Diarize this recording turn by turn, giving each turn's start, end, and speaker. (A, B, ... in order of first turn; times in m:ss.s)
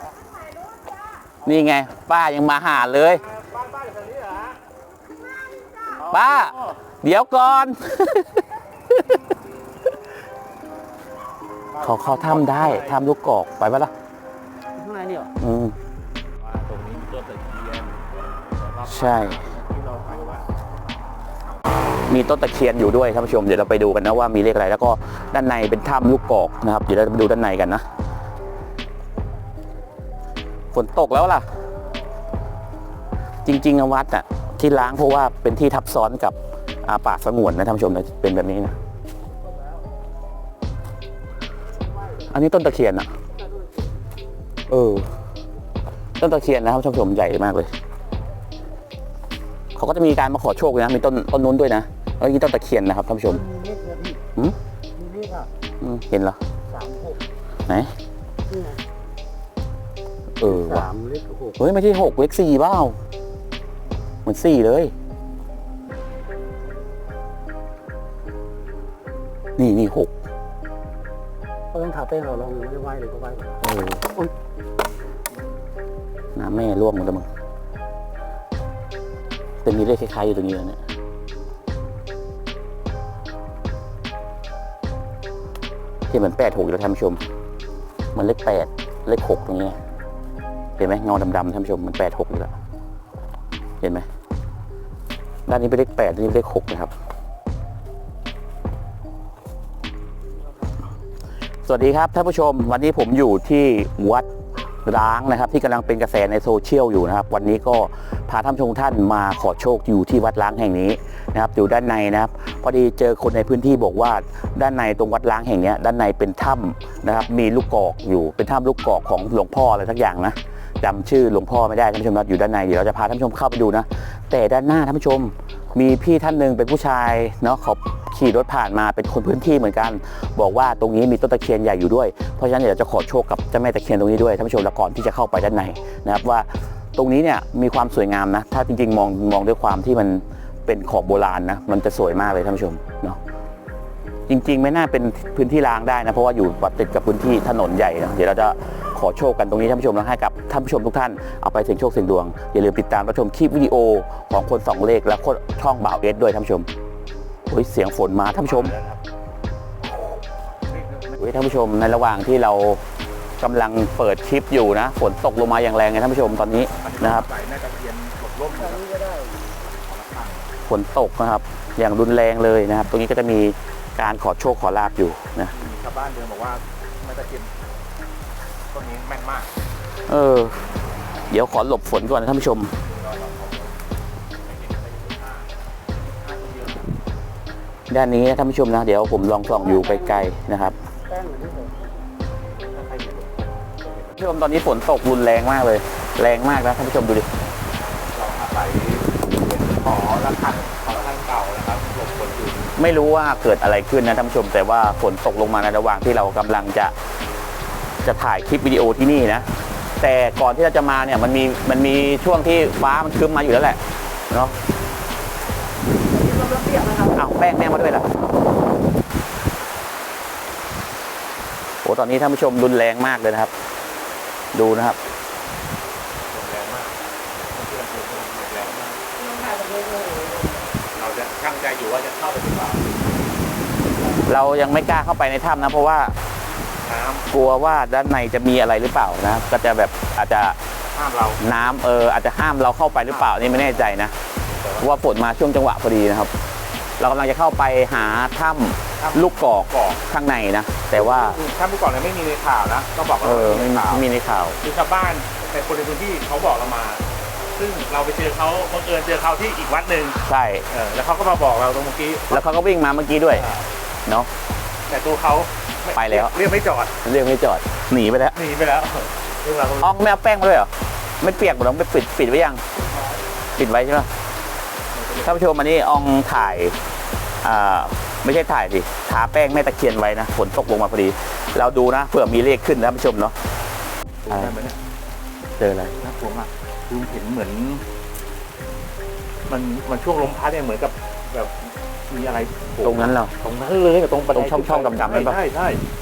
0:01.4-0:03.2 A
0:03.2-0:04.6 B
0:06.0-0:06.8 B
0:06.0-0:09.2 A
0:11.7-0:13.0 B
0:11.8-0:13.9 A
0:14.7-0:15.3 C
0:15.4-0:15.7 A
0:16.4-0:20.5 B
0:18.9-0:19.4 A
0:22.1-0:27.8 A
0:30.7-0:31.5 A
0:33.4-0:38.8 A
0:42.2-0:43.1 A
0:44.7-0:45.2 A
0:46.2-0:47.7 A
0:49.7-0:53.4 A
0:53.2-0:54.2 C
0:54.9-0:55.5 C
0:55.8-0:56.4 A
0:56.7-0:57.2 C
0:57.7-0:57.9 A
0:58.4-0:58.8 C
1:00.4-1:00.9 A
1:00.4-1:01.6 C
1:01.6-1:03.0 A
1:04.2-1:04.9 A
1:09.6-1:10.1 A
1:11.7-1:14.3 C
1:13.6-1:14.0 A
1:16.4-1:17.3 A
1:19.6-1:20.8 A
1:26.1-1:27.2 A
1:28.1-1:29.8 A
1:30.8-1:32.5 A
1:35.5-1:36.9 A
1:41.6-1:44.3 A
1:44.8-2:23.2 A
2:24.3-2:36.7 A
2:37.4-2:38.7 A
2:38.4-2:39.0 B
2:40.7-2:41.2 B
2:41.2-2:42.8 A
2:43.4-2:47.2 A
2:46.8-2:48.8 B
2:48.6-2:49.6 C
2:49.8-2:50.5 B
2:50.7-2:55.5 A
2:55.5-2:57.7 B
2:58.7-2:59.5 B
3:00.1-3:00.6 A
3:01.3-3:02.7 A
3:02.8-3:03.7 B
3:04.4-3:06.9 B
3:07.9-3:10.8 A
3:09.6-3:10.3 C
3:11.0-3:12.1 C
3:12.3-3:14.2 B
3:14.2-3:17.3 A
3:17.9-3:22.7 B
3:22.8-3:26.9 A
3:28.0-3:29.5 A
3:30.0-3:34.5 A
3:36.1-3:37.1 C
3:37.1-3:38.1 A
3:41.8-3:43.5 A
3:44.5-3:45.0 A
3:46.3-3:49.0 B
3:49.2-3:50.7 C
3:50.9-3:52.9 B
3:54.2-3:56.1 A
3:56.8-3:57.3 B
3:57.3-4:00.6 A
4:00.9-4:01.4 B
4:01.4-4:04.1 A
4:03.1-4:03.9 B
4:04.4-4:04.9 B
4:04.8-4:06.3 A
4:07.0-4:11.4 A
4:09.0-4:10.0 B
4:10.9-4:14.0 B
4:13.2-4:14.6 A
4:14.6-4:22.4 B
4:20.2-4:20.6 A
4:22.3-4:23.4 A
4:23.3-4:23.7 B
4:24.9-4:26.9 B
4:25.9-4:26.3 A
4:27.0-4:28.4 A
4:28.3-4:30.0 B
4:29.8-4:32.6 A
4:33.6-4:34.1 A
4:34.9-4:35.5 B
4:35.2-4:36.8 A
4:37.4-4:43.3 A
4:44.2-4:44.8 B
4:45.6-4:45.9 A
4:45.9-4:47.8 B
4:49.5-4:55.8 B
4:52.8-4:53.3 A
4:54.3-4:55.4 A